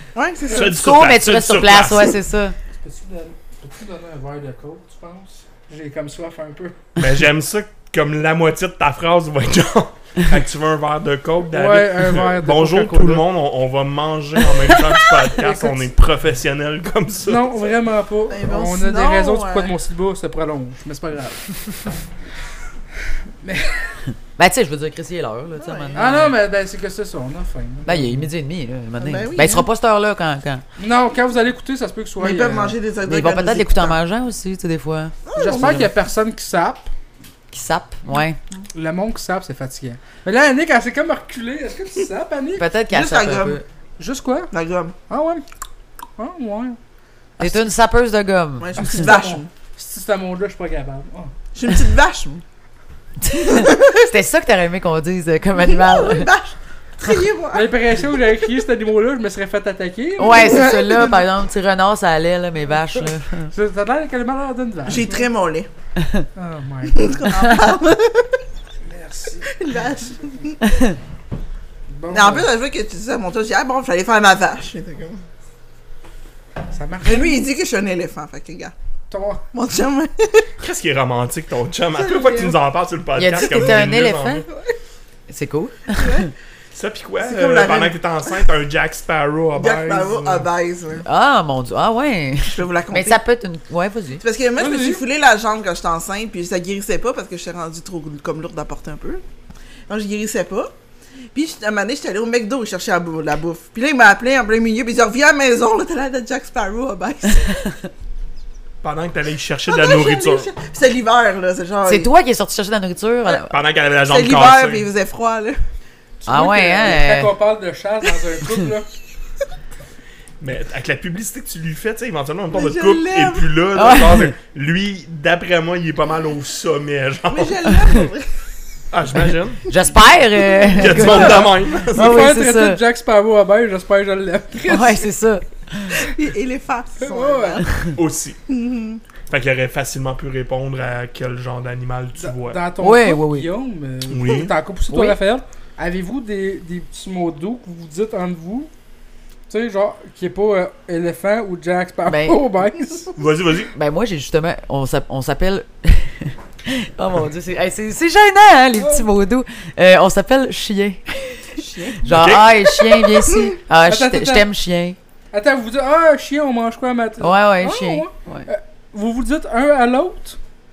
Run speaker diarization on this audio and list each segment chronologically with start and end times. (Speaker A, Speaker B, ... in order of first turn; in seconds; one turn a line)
Speaker A: 0.1-0.7
Speaker B: 0.5-2.1
Speaker C: 0.6-2.5
Speaker D: 2.8-7.0
Speaker B: 7.0-17.5
Speaker D: 11.5-13.2
Speaker C: 14.6-15.3
Speaker D: 17.2-21.9
Speaker A: 18.3-19.7
Speaker D: 23.4-24.0
Speaker C: 24.4-26.3
Speaker A: 25.6-26.2
Speaker D: 25.9-28.3
Speaker C: 27.8-30.6
Speaker A: 29.0-29.7
Speaker D: 30.8-32.8
Speaker A: 32.2-34.0
Speaker C: 33.0-35.6
Speaker A: 35.2-35.9
Speaker D: 35.3-36.9
Speaker C: 37.5-38.4
Speaker D: 38.7-42.6
Speaker C: 42.6-43.6
Speaker A: 42.9-43.6
Speaker D: 44.0-44.5
Speaker A: 44.5-45.0
Speaker D: 45.1-45.4
Speaker D: 46.2-46.8
Speaker C: 47.4-48.9
Speaker A: 48.6-49.5
Speaker D: 48.8-51.3
Speaker A: 51.5-52.4
Speaker C: 53.2-56.3
Speaker A: 53.4-54.1
Speaker A: 55.5-57.7
Speaker D: 57.5-60.8
Speaker C: 60.2-63.5
Speaker A: 60.4-61.2
Speaker D: 63.0-65.3
Speaker A: 64.8-65.7
Speaker C: 66.0-66.2
Speaker D: 66.3-67.2
Speaker A: 66.8-68.4
Speaker D: 68.8-69.6
Speaker A: 69.4-70.6
Speaker D: 71.9-72.5
Speaker A: 72.1-75.2
Speaker D: 76.7-77.4
Speaker A: 77.0-78.7
Speaker D: 79.1-79.4
Speaker A: 79.5-80.5
Speaker B: 80.6-84.5
Speaker D: 82.0-82.5
Speaker C: 83.1-84.4
Speaker C: 85.3-86.3
Speaker A: 85.9-86.3
Speaker B: 86.7-90.5
Speaker A: 87.2-88.0
Speaker A: 89.5-91.0
Speaker C: 90.9-94.2
Speaker A: 92.5-93.2
Speaker A: 94.2-99.2
Speaker D: 94.6-95.0
Speaker A: 99.9-100.7
Speaker A: 101.3-107.5
Speaker C: 107.4-107.8
Speaker B: 108.8-110.5
Speaker A: 109.7-112.1
Speaker C: 111.8-113.5
Speaker B: 113.3-114.9
Speaker A: 114.0-115.6
Speaker D: 116.2-118.9
Speaker C: 116.2-117.3
Speaker B: 120.4-127.6
Speaker A: 122.5-123.5
Speaker C: 123.7-124.3
Speaker A: 127.3-128.3
Speaker B: 128.9-130.0
Speaker C: 129.7-132.8
Speaker D: 130.7-135.1
Speaker B: 130.8-132.3
Speaker C: 134.7-136.1
Speaker A: 136.0-137.7
Speaker D: 137.0-137.7
Speaker B: 137.9-138.4
Speaker A: 138.5-139.0
Speaker B: 139.3-142.6
Speaker D: 142.2-148.7
Speaker C: 142.8-143.5
Speaker B: 144.1-144.5
Speaker C: 144.9-145.2
Speaker D: 149.5-153.1
Speaker C: 152.1-152.4
Speaker B: 153.2-153.7
Speaker C: 153.7-165.0
Speaker D: 158.8-159.0
Speaker A: 161.6-162.2
Speaker B: 162.1-162.7
Speaker D: 163.8-164.5
Speaker D: 165.3-170.4
Speaker C: 167.2-168.5